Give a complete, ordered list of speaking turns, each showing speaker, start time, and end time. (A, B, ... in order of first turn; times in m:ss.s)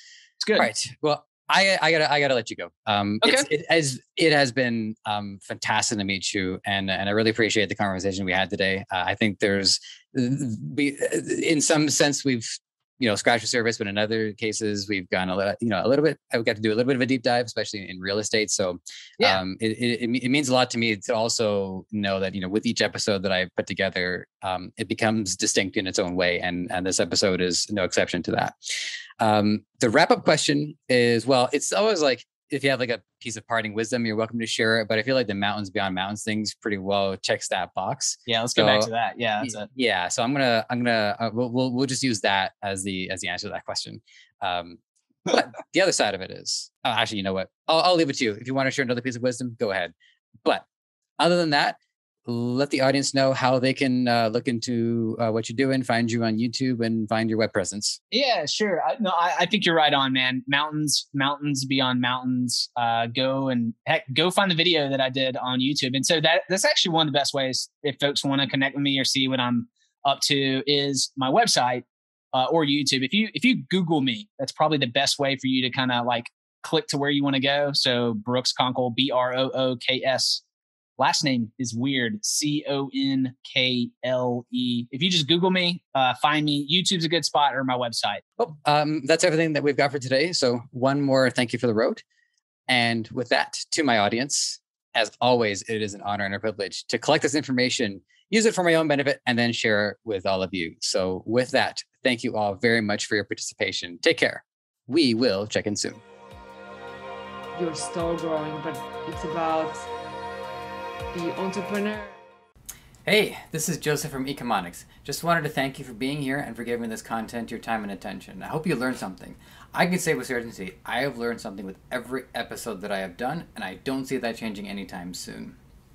0:00.4-0:00.7 A
0:00.6-0:38.9 B
0:03.2-0:03.5 A
0:38.3-0:39.7 A
0:39.4-0:49.9 B
0:51.2-0:58.0 B
0:58.1-1:20.4 A
1:21.0-1:28.2 A
1:28.4-1:32.0 B
1:32.7-1:46.0 B
1:47.5-1:49.8 C
1:51.1-1:52.1 C
1:53.0-2:05.6 B